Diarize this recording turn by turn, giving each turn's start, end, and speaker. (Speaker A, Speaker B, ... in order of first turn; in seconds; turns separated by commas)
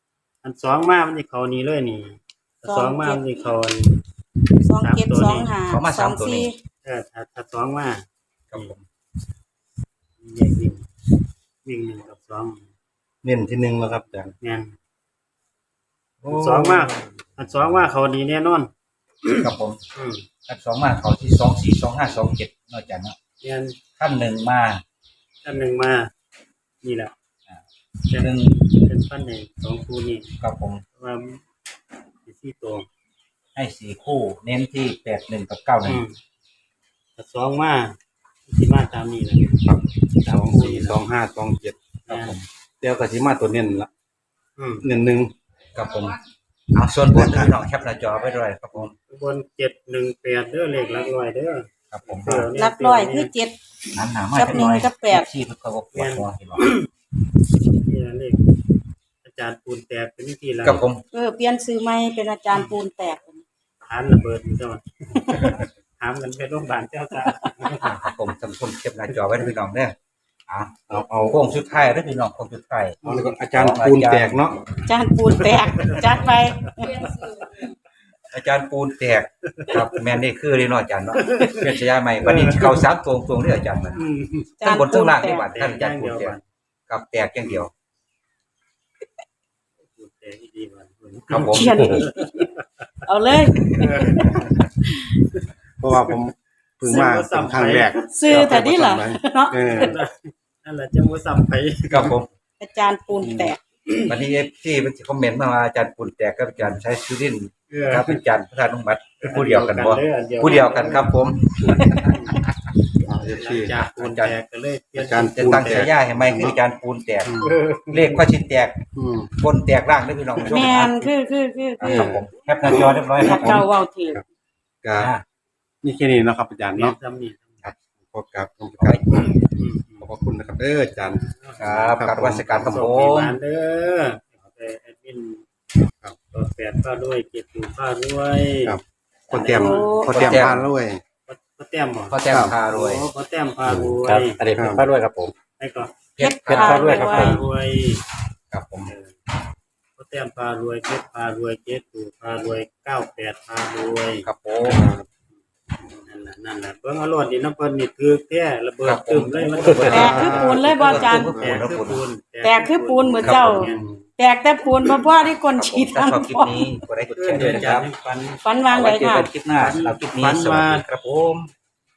Speaker A: 0.4-4.0, Speaker B: 2.6-3.2, Speaker B: 4.6-6.6, Speaker A: 4.8-5.5, Speaker C: 5.7-6.5, Speaker A: 6.8-8.7, Speaker C: 8.5-8.8, Speaker A: 10.2-10.8, Speaker A: 11.6-12.7, Speaker D: 13.2-14.3, Speaker A: 14.4-14.8, Speaker D: 16.2-16.9, Speaker A: 16.3-18.7, Speaker C: 19.4-19.8, Speaker A: 19.9-20.3, Speaker C: 20.5-23.2, Speaker A: 23.4-23.8, Speaker C: 24.0-24.8, Speaker A: 25.4-26.1, Speaker A: 26.8-27.1, Speaker A: 28.1-30.3, Speaker C: 28.2-28.6, Speaker C: 30.4-30.8, Speaker A: 30.9-31.4, Speaker A: 32.3-32.9, Speaker C: 33.5-36.0, Speaker A: 35.9-36.2, Speaker A: 37.2-38.0, Speaker A: 38.5-39.6, Speaker D: 39.6-41.8, Speaker A: 40.2-41.0, Speaker A: 42.1-42.4, Speaker C: 42.1-42.5, Speaker D: 42.8-43.9, Speaker A: 44.6-44.9, Speaker D: 44.8-45.3, Speaker C: 45.8-46.2, Speaker C: 46.7-49.0, Speaker D: 47.1-47.5, Speaker A: 49.0-53.3, Speaker C: 51.9-52.5, Speaker B: 52.5-53.6, Speaker C: 53.9-56.7, Speaker B: 54.3-55.3, Speaker A: 55.9-56.9, Speaker A: 57.7-58.4, Speaker A: 59.2-60.8, Speaker C: 60.6-61.0, Speaker B: 61.1-63.4, Speaker A: 63.8-68.0, Speaker B: 65.3-65.5, Speaker C: 67.8-70.0, Speaker C: 70.5-74.4, Speaker D: 70.9-71.4, Speaker D: 73.0-74.7, Speaker B: 74.8-77.6, Speaker A: 75.7-76.1, Speaker A: 77.2-77.5, Speaker C: 78.3-84.1, Speaker A: 81.2-81.7, Speaker A: 84.0-84.5, Speaker B: 84.6-85.5, Speaker C: 84.6-86.4, Speaker A: 85.4-86.4, Speaker C: 86.9-87.7, Speaker A: 89.9-92.5, Speaker C: 91.3-92.0, Speaker B: 91.5-92.5, Speaker B: 93.1-94.5, Speaker A: 93.8-94.5, Speaker D: 95.8-100.0, Speaker A: 96.8-98.5, Speaker B: 98.0-100.0, Speaker A: 99.7-102.2, Speaker C: 101.9-102.3, Speaker B: 102.6-103.6, Speaker D: 103.2-103.5, Speaker C: 104.1-112.3, Speaker A: 107.7-108.2, Speaker A: 109.2-111.1, Speaker A: 112.0-112.4, Speaker D: 113.0-113.7, Speaker A: 113.3-115.9, Speaker C: 113.8-114.4, Speaker D: 115.0-116.6, Speaker C: 115.3-117.3, Speaker D: 117.2-117.5, Speaker A: 117.4-118.2, Speaker C: 117.9-118.9, Speaker D: 118.9-119.3, Speaker C: 119.4-121.0, Speaker B: 120.5-122.0, Speaker C: 121.8-123.6, Speaker D: 121.8-124.2, Speaker B: 123.2-124.2, Speaker D: 124.8-125.1, Speaker C: 125.0-125.2, Speaker D: 125.8-127.0, Speaker A: 126.7-127.6, Speaker D: 128.1-129.4, Speaker C: 128.8-129.4, Speaker A: 129.5-130.1, Speaker D: 130.0-131.2, Speaker A: 131.2-135.5, Speaker C: 131.6-133.4, Speaker D: 131.9-132.8, Speaker D: 135.9-136.2, Speaker A: 136.3-138.8, Speaker D: 138.7-141.0, Speaker A: 139.3-140.3, Speaker B: 139.4-140.4, Speaker C: 140.1-140.7, Speaker A: 141.3-144.4, Speaker C: 142.1-143.1, Speaker D: 142.3-142.6, Speaker E: 143.7-145.3, Speaker D: 144.5-144.8, Speaker A: 145.6-146.0, Speaker C: 146.2-147.2, Speaker B: 146.2-147.4, Speaker E: 146.5-147.4, Speaker A: 146.6-148.0, Speaker C: 148.5-148.9, Speaker A: 148.9-149.2, Speaker A: 150.0-154.3, Speaker C: 154.2-154.9, Speaker D: 154.6-155.1, Speaker A: 155.9-164.0, Speaker C: 158.8-162.0, Speaker D: 159.6-161.6, Speaker B: 159.9-161.3, Speaker B: 162.4-166.7, Speaker C: 163.2-163.6, Speaker C: 165.6-167.9, Speaker A: 167.1-168.4, Speaker B: 168.4-169.3, Speaker C: 168.7-171.5, Speaker A: 169.6-170.8